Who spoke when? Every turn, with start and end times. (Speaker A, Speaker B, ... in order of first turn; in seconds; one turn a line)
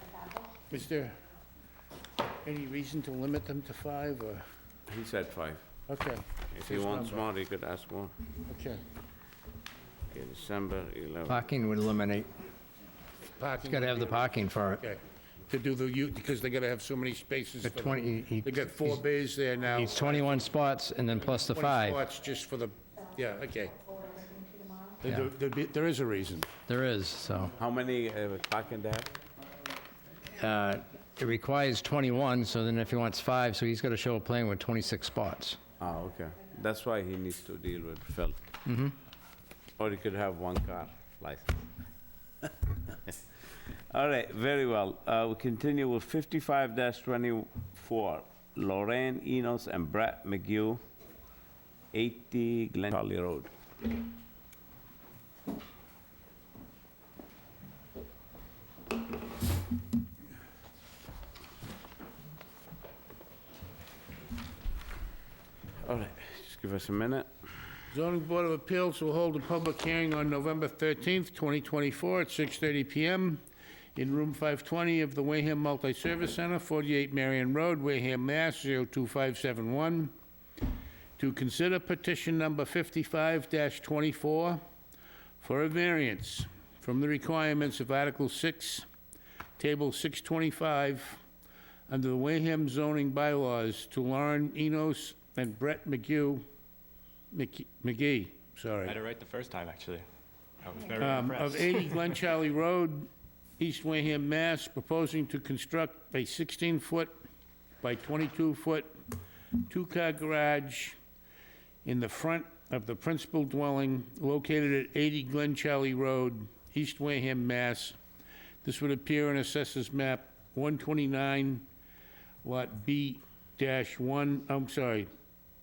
Speaker A: 0.7-1.2
Speaker A: 2.4-4.4
Speaker B: 4.9-5.6
Speaker A: 5.9-7.3
Speaker B: 6.5-8.1
Speaker A: 8.5-8.8
Speaker B: 10.1-11.4
Speaker C: 11.3-12.3
Speaker A: 13.4-20.4
Speaker C: 13.6-14.8
Speaker C: 17.6-19.0
Speaker C: 19.7-22.0
Speaker A: 21.4-23.8
Speaker A: 25.0-26.5
Speaker C: 26.7-27.5
Speaker B: 27.6-29.1
Speaker C: 30.4-35.6
Speaker B: 35.8-38.4
Speaker C: 38.7-39.0
Speaker B: 39.8-41.6
Speaker B: 43.9-50.8
Speaker B: 51.9-53.5
Speaker B: 65.8-67.3
Speaker A: 67.9-73.4
Speaker A: 74.0-80.1
Speaker A: 81.2-84.6
Speaker A: 85.4-88.9
Speaker A: 89.6-91.2
Speaker A: 91.9-96.4
Speaker A: 97.3-99.0
Speaker D: 98.8-100.0
Speaker D: 100.6-102.2
Speaker A: 101.0-107.2
Speaker A: 107.8-108.9
Speaker A: 109.7-111.0
Speaker A: 111.8-118.0
Speaker A: 118.6-121.7
Speaker A: 122.4-125.1